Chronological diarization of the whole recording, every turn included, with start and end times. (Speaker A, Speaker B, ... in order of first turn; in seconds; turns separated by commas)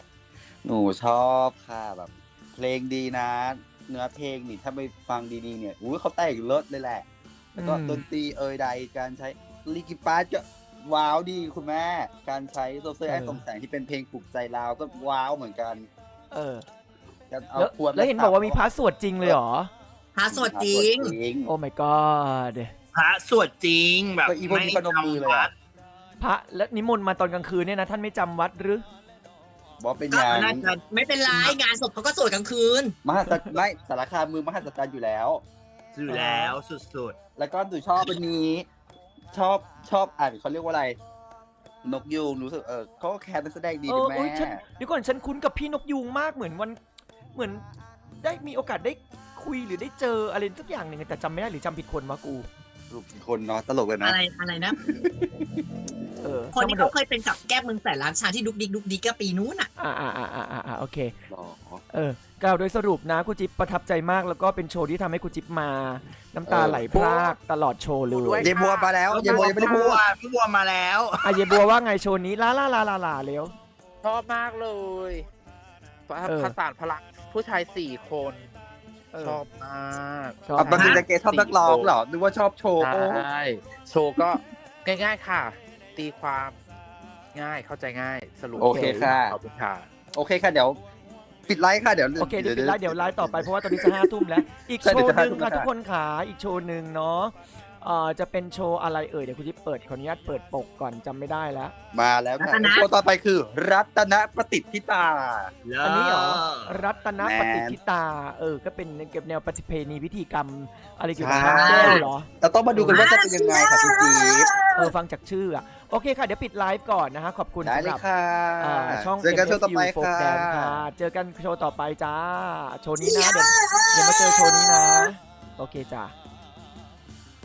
Speaker A: 0.6-7.0, Speaker B: 7.5-8.0, Speaker A: 7.6-15.9, Speaker B: 13.1-13.4, Speaker B: 16.3-16.7, Speaker A: 17.3-18.7, Speaker B: 17.6-19.7, Speaker C: 20.1-21.1, Speaker A: 20.3-21.5, Speaker B: 21.4-22.7, Speaker D: 22.9-25.5, Speaker A: 24.2-25.5, Speaker B: 26.2-28.8, Speaker A: 29.8-30.7, Speaker C: 30.1-33.0, Speaker A: 31.3-31.5, Speaker A: 33.0-35.4, Speaker B: 33.2-33.5, Speaker D: 35.9-37.2, Speaker B: 36.1-36.5, Speaker A: 37.4-38.7, Speaker A: 39.3-41.0, Speaker A: 41.8-44.6, Speaker B: 43.9-46.8, Speaker B: 47.3-47.6, Speaker B: 48.2-52.5, Speaker A: 52.9-54.2, Speaker C: 54.0-54.8, Speaker A: 54.8-55.6, Speaker B: 56.2-56.9, Speaker C: 56.5-59.7, Speaker B: 59.8-61.1, Speaker A: 61.3-61.8, Speaker B: 61.9-68.5, Speaker A: 66.5-67.3, Speaker E: 68.1-70.0, Speaker A: 68.4-70.0, Speaker D: 69.1-71.5, Speaker B: 71.2-73.5, Speaker E: 74.0-75.3, Speaker E: 76.1-78.5, Speaker B: 76.2-76.5, Speaker B: 79.1-79.4, Speaker E: 79.2-81.9, Speaker B: 80.4-81.0, Speaker A: 80.6-83.2, Speaker C: 80.8-81.0, Speaker E: 82.8-86.6, Speaker E: 87.3-89.9, Speaker B: 88.6-89.1, Speaker A: 88.6-89.4, Speaker A: 90.1-90.8, Speaker A: 91.5-94.2, Speaker B: 92.2-101.7, Speaker A: 94.8-95.7, Speaker A: 101.9-105.5, Speaker C: 102.4-102.9, Speaker D: 105.6-106.7, Speaker B: 105.8-113.0, Speaker A: 107.2-107.8, Speaker A: 111.2-114.5, Speaker C: 111.3-112.1, Speaker C: 112.8-114.9, Speaker B: 114.8-118.0, Speaker A: 117.6-120.8, Speaker B: 118.6-126.1, Speaker C: 123.0-125.1